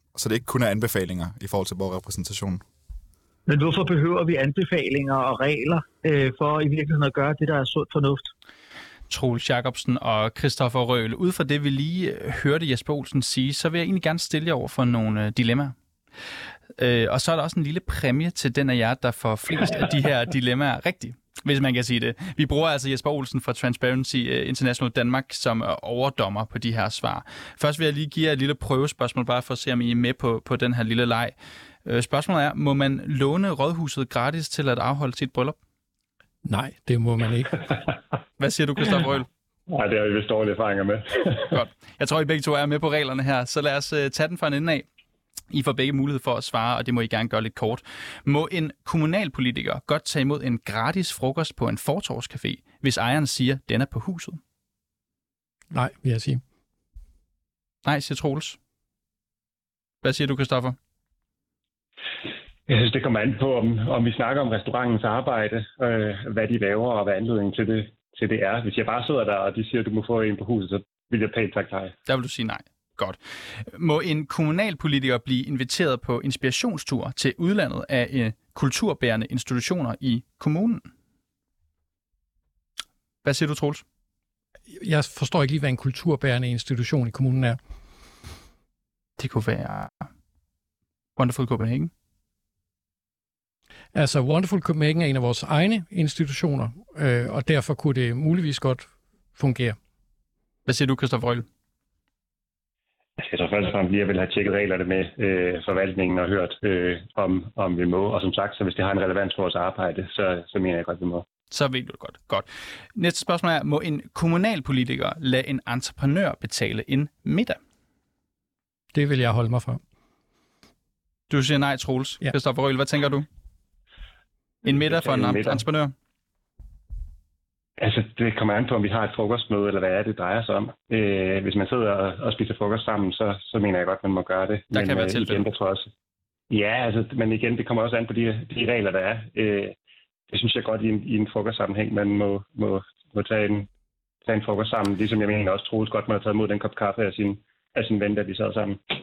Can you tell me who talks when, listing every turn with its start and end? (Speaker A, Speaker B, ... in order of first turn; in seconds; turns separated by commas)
Speaker A: 0.1-2.6, Speaker B: 3.5-8.3, Speaker C: 9.1-15.7, Speaker C: 16.8-35.6, Speaker D: 36.4-37.7, Speaker C: 38.4-39.3, Speaker E: 39.7-41.6, Speaker C: 41.5-44.9, Speaker C: 45.5-54.4, Speaker D: 55.7-56.4, Speaker C: 57.8-58.6, Speaker C: 60.0-60.8, Speaker E: 62.7-71.9, Speaker C: 72.0-80.9, Speaker C: 83.2-83.8, Speaker D: 84.7-87.6, Speaker C: 89.2-90.1, Speaker C: 91.2-91.9, Speaker D: 93.9-99.8, Speaker C: 100.7-101.5, Speaker E: 103.2-111.2, Speaker C: 111.5-117.6, Speaker D: 118.9-119.8, Speaker C: 121.3-123.3, Speaker E: 124.6-125.6, Speaker C: 124.6-125.9, Speaker E: 127.8-135.9, Speaker C: 134.7-135.4, Speaker E: 136.5-139.8, Speaker E: 140.3-143.7, Speaker E: 144.2-148.8